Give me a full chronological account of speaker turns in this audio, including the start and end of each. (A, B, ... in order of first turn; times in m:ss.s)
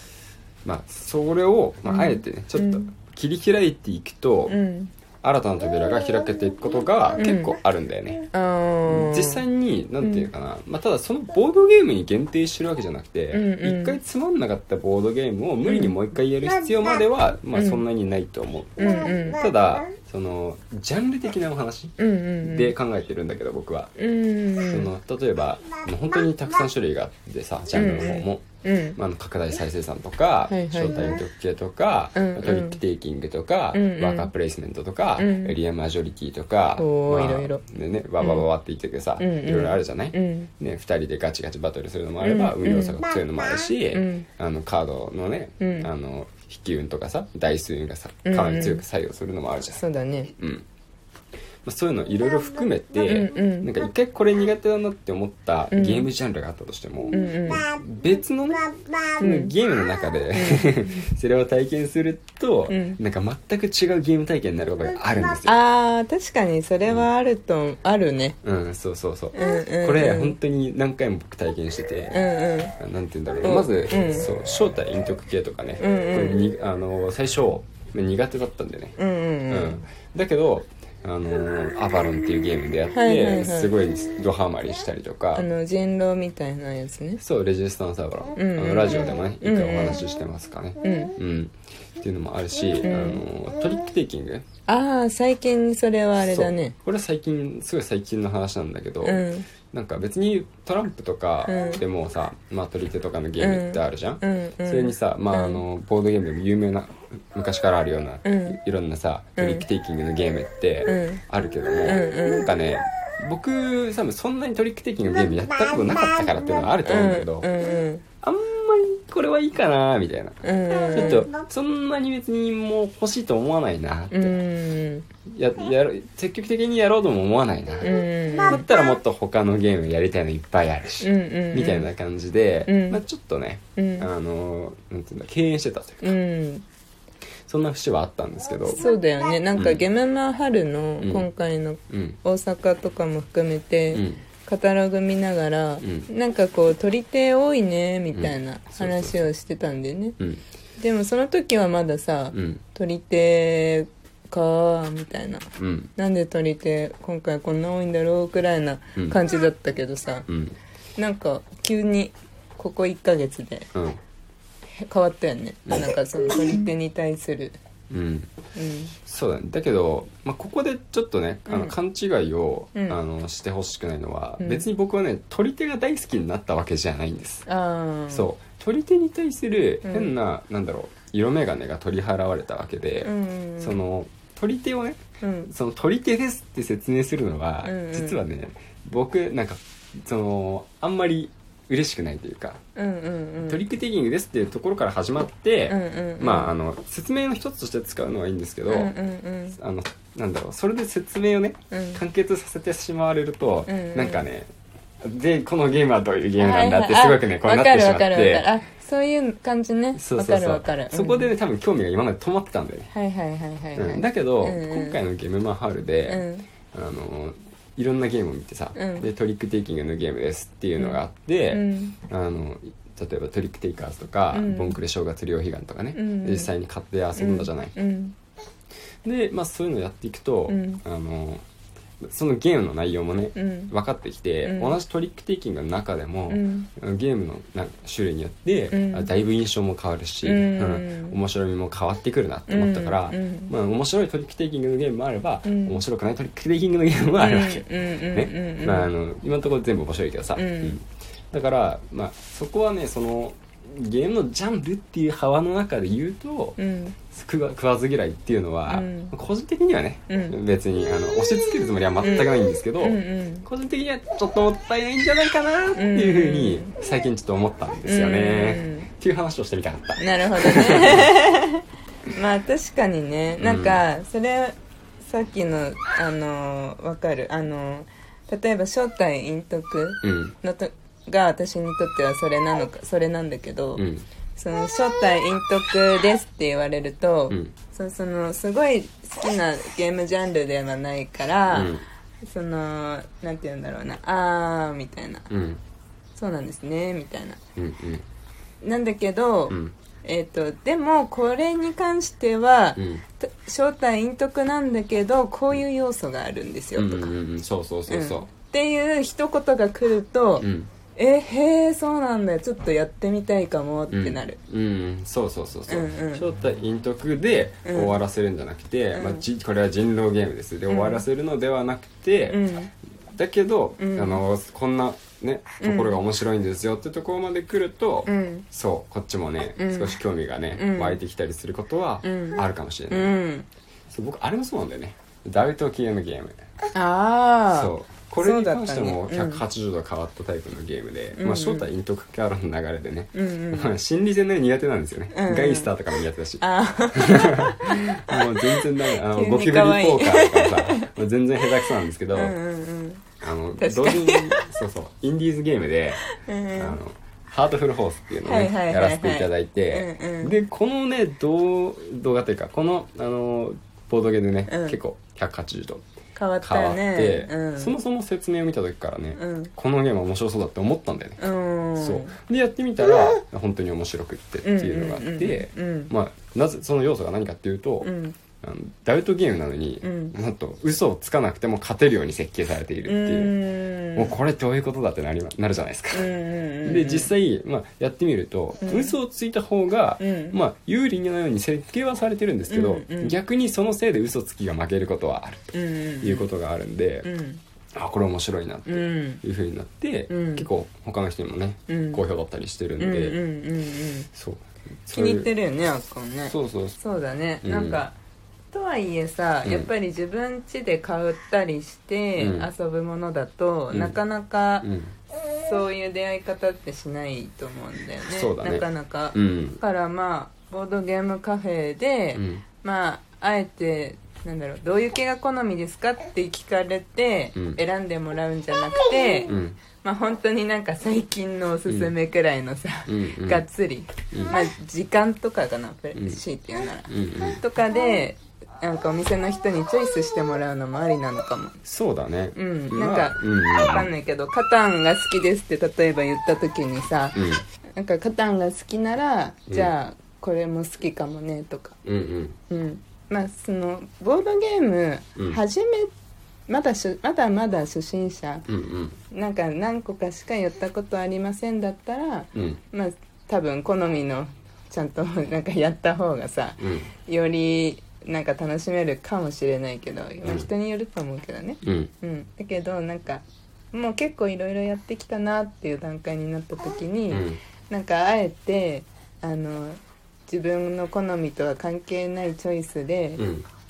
0:00.6-0:04.6 A
0:01.9-0:02.9 B
0:04.5-0:04.9 B
0:05.2-0:08.3 A
0:07.2-0:07.6 B
0:08.3-0:09.4 B
0:08.9-0:24.0 A
0:10.0-0:10.3 B
0:13.3-0:14.0 B
0:15.7-0:16.0 B
0:17.5-0:17.8 B
0:18.8-0:19.4 B
0:22.0-0:22.7 B
0:24.0-0:24.9 B
0:24.6-0:49.9 A
0:27.7-0:29.0 B
0:30.5-0:31.2 B
0:32.2-0:32.8 B
0:33.7-0:34.3 B
0:35.2-0:35.6 B
0:36.8-0:37.6 B
0:38.2-0:38.5 B
0:39.2-0:40.5 B
0:42.2-0:43.0 B
0:43.9-0:44.3 B
0:45.6-0:45.9 B
0:48.3-0:48.8 B
0:49.8-0:50.3 B
0:50.4-0:50.6 A
0:51.6-1:05.6 A
0:53.0-0:53.7 B
0:55.7-0:56.1 B
0:57.1-0:57.7 B
0:59.2-0:59.5 B
1:00.3-1:01.0 B
1:02.7-1:03.0 B
1:05.4-1:08.4 B
1:08.4-1:12.2 A
1:09.3-1:10.4 B
1:12.1-1:12.8 B
1:12.8-1:19.0 A
1:13.4-1:14.3 B
1:15.8-1:16.5 B
1:19.0-1:19.8 B
1:19.5-1:25.5 A
1:22.9-1:23.8 B
1:25.4-1:27.2 B
1:27.2-1:34.5 A
1:28.4-1:30.0 B
1:30.8-1:31.2 B
1:32.8-1:33.2 B
1:34.7-1:36.8 B
1:36.2-1:57.5 A
1:39.0-1:39.5 B
1:41.5-1:41.8 B
1:43.4-1:45.6 B
1:48.2-1:48.6 B
1:49.4-1:49.7 B
1:50.9-1:51.2 B
1:51.8-1:52.5 B
1:56.9-1:58.0 B
1:58.2-2:04.3 A
2:00.4-2:01.3 B
2:04.1-2:05.1 B
2:05.3-2:07.9 A
2:07.8-2:08.7 B
2:08.5-2:16.2 A
2:11.0-2:11.9 B
2:12.7-2:13.0 B
2:13.8-2:14.1 B
2:16.0-2:16.6 B
2:17.5-2:18.8 A
2:18.7-2:30.2 B
2:19.5-2:19.8 A
2:21.0-2:21.3 A
2:21.9-2:22.2 A
2:23.9-2:24.2 A
2:25.8-2:26.1 A
2:28.1-2:29.3 A
2:30.8-2:35.4 B
2:32.3-2:32.6 A
2:35.6-2:35.9 A
2:36.0-2:40.3 B
2:40.3-2:40.6 A
2:41.0-2:43.7 B
2:43.7-2:44.0 A
2:44.8-2:47.6 B
2:47.9-2:48.3 A
2:48.6-2:48.9 B
2:49.0-2:57.5 A
2:51.5-2:51.8 B
2:52.8-2:53.0 B
2:54.4-2:54.7 B
2:57.5-2:58.3 B
2:58.1-3:12.6 A
2:59.8-3:00.1 B
3:03.0-3:03.8 B
3:05.2-3:05.5 B
3:07.6-3:08.2 B
3:12.8-3:13.6 B
3:13.5-3:18.9 A
3:15.7-3:16.5 B
3:18.7-3:19.6 B
3:19.5-3:24.5 A
3:21.7-3:22.0 B
3:23.7-3:24.2 B
3:25.0-3:28.5 A
3:26.4-3:31.3 B
3:30.0-3:32.9 A
3:32.9-3:35.0 B
3:33.8-3:47.7 A
3:36.1-3:36.5 B
3:38.8-3:39.1 B
3:40.8-3:42.0 B
3:44.3-3:44.8 B
3:46.0-3:46.5 B
3:47.2-3:48.2 B
3:49.0-3:51.4 A
3:50.5-3:50.8 B
3:52.0-4:31.2 A
3:53.4-3:53.7 B
3:54.4-3:54.8 B
3:56.3-3:56.7 B
3:58.7-3:59.1 B
4:00.2-4:01.2 B
4:02.5-4:03.5 B
4:05.4-4:05.8 B
4:07.2-4:08.9 B
4:10.4-4:10.8 B
4:16.6-4:17.0 B
4:18.7-4:19.1 B
4:20.1-4:20.4 B
4:22.0-4:23.5 B
4:25.8-4:26.7 B
4:27.8-4:28.9 B
4:30.0-4:43.8 B
4:33.4-4:33.8 A
4:40.0-4:40.4 A
4:43.8-4:44.1 A
4:44.4-4:51.7 B
4:47.3-4:47.6 A
4:51.5-4:51.8 A
4:52.3-4:55.3 B
4:55.3-4:55.6 A
4:56.2-4:57.4 B
4:57.6-4:58.0 A
4:58.6-5:07.1 B
4:59.5-4:59.7 A
5:02.8-5:03.0 A
5:06.8-5:08.3 A
5:07.9-5:14.4 B
5:10.4-5:10.7 A
5:13.9-5:22.4 A
5:15.7-5:16.3 B
5:17.7-5:18.0 B
5:18.9-5:19.2 B
5:20.7-5:21.0 B
5:22.3-5:22.7 B
5:23.1-5:33.1 A
5:23.8-5:24.2 B
5:25.6-5:26.0 B
5:28.1-5:28.4 B
5:29.6-5:30.0 B
5:30.6-5:31.0 B
5:32.0-5:33.5 B
5:33.9-5:36.4 A
5:36.7-5:39.4 B
5:37.5-5:52.3 A
5:41.2-5:41.7 B
5:43.1-5:43.7 B
5:45.1-5:45.7 B
5:46.4-5:50.9 B
5:51.6-5:53.0 B
5:53.2-6:05.8 A
5:53.6-5:54.5 B
5:56.0-5:56.8 B
5:58.3-6:00.4 B
6:04.5-6:04.8 B
6:06.2-6:07.8 B
6:06.4-6:11.2 A
6:09.2-6:09.5 B
6:11.2-6:12.2 B
6:11.8-6:23.4 A
6:14.4-6:15.9 B
6:17.8-6:18.2 B
6:19.8-6:20.2 B
6:22.8-6:24.2 B
6:24.0-6:26.1 A
6:25.9-6:27.1 B
6:26.6-6:37.1 A
6:28.6-6:29.0 B
6:30.0-6:30.4 B
6:32.5-6:33.2 B
6:35.5-6:36.3 B
6:37.0-6:37.4 B
6:37.8-6:43.2 A
6:38.7-6:39.2 B
6:40.1-6:40.5 B
6:41.7-6:42.0 B
6:42.8-6:44.1 B
6:44.1-6:45.3 A
6:44.9-6:48.0 B
6:46.2-6:46.8 A
6:47.4-6:47.8 A
6:48.5-6:54.7 B
6:49.4-6:49.7 A
6:52.2-6:52.5 A
6:53.7-6:54.0 A
6:54.6-6:54.9 A
6:55.4-7:21.6 B
6:58.1-6:59.6 A
7:02.2-7:02.5 A
7:09.3-7:09.6 A
7:11.7-7:11.9 A
7:12.9-7:13.4 A
7:14.1-7:14.4 A
7:15.9-7:16.2 A
7:16.8-7:17.4 A
7:21.6-7:23.9 A
7:22.4-7:27.2 B
7:27.1-7:27.4 A
7:27.8-7:31.8 B
7:31.8-7:32.4 A
7:32.5-7:35.9 B
7:35.2-7:35.4 A
7:36.5-7:38.5 B
7:38.5-7:39.0 A
7:39.1-8:03.3 B
7:42.4-7:42.6 A
7:46.6-7:46.9 A
7:51.6-7:51.9 A
7:57.1-7:57.4 A
8:03.2-8:03.5 A